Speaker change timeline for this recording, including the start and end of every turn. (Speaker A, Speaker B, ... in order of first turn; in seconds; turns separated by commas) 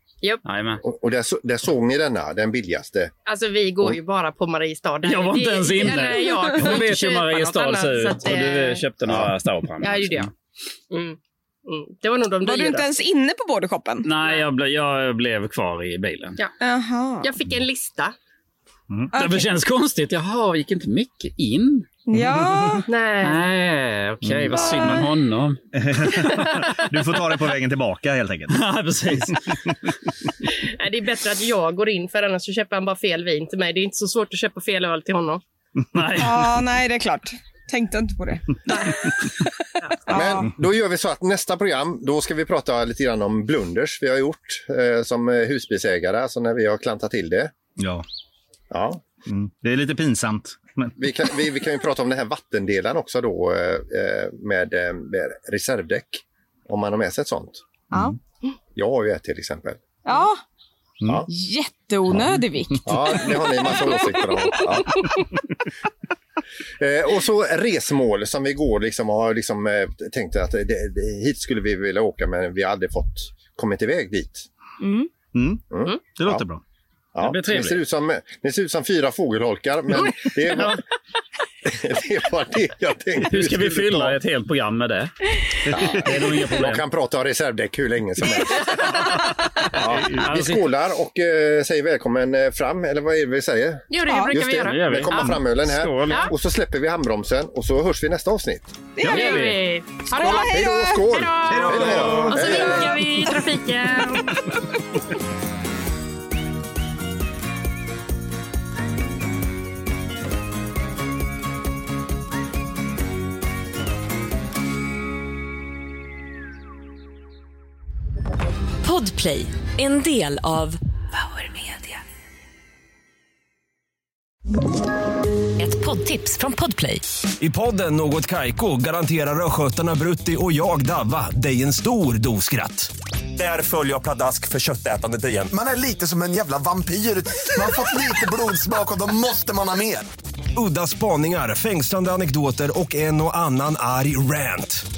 Speaker A: 0.4-0.8, Speaker B: 0.8-3.1, Speaker C: 3.2-8.8, Speaker A: 5.0-10.3, Speaker D: 6.1-6.5, Speaker B: 9.1-9.3, Speaker C: 9.8-10.3, Speaker C: 10.9-12.9, Speaker D: 12.4-14.1, Speaker A: 14.0-16.4, Speaker D: 16.6-17.3, Speaker C: 17.2-18.1, Speaker D: 19.1-19.4, Speaker A: 19.1-21.9, Speaker D: 22.1-22.9, Speaker E: 22.1-22.8, Speaker C: 22.9-23.4, Speaker A: 23.2-25.6, Speaker E: 24.2-24.7, Speaker D: 24.6-25.1, Speaker E: 25.7-28.7, Speaker A: 26.1-26.4, Speaker A: 28.5-29.6, Speaker C: 30.6-35.4, Speaker A: 35.9-36.4, Speaker D: 36.2-40.5, Speaker C: 39.8-40.1, Speaker B: 40.1-47.5, Speaker E: 47.8-48.0, Speaker B: 48.7-49.0, Speaker E: 49.2-51.0, Speaker B: 51.0-57.6, Speaker B: 58.7-60.2, Speaker D: 60.0-60.4, Speaker D: 61.3-64.7, Speaker B: 62.8-65.0, Speaker B: 66.8-74.5, Speaker D: 74.8-75.1, Speaker E: 75.3-76.6, Speaker B: 75.7-76.4, Speaker B: 77.1-80.8, Speaker A: 77.2-77.8, Speaker B: 81.6-84.2, Speaker A: 83.3-85.1, Speaker E: 85.7-86.0, Speaker B: 85.7-89.0, Speaker A: 86.0-86.8, Speaker B: 89.7-98.8, Speaker A: 90.0-90.6, Speaker C: 93.9-95.3, Speaker D: 94.1-94.3, Speaker A: 94.6-96.3, Speaker D: 99.0-99.5, Speaker A: 99.0-99.6, Speaker C: 99.0-104.4, Speaker D: 100.1-101.2, Speaker B: 100.4-103.0, Speaker A: 101.5-102.3, Speaker E: 101.9-102.3, Speaker D: 101.9-103.4, Speaker D: 104.1-104.4, Speaker F: 118.8-122.0, Speaker F: 125.6-127.0, Speaker G: 127.4-135.5, Speaker H: 135.5-140.1, Speaker G: 140.6-144.8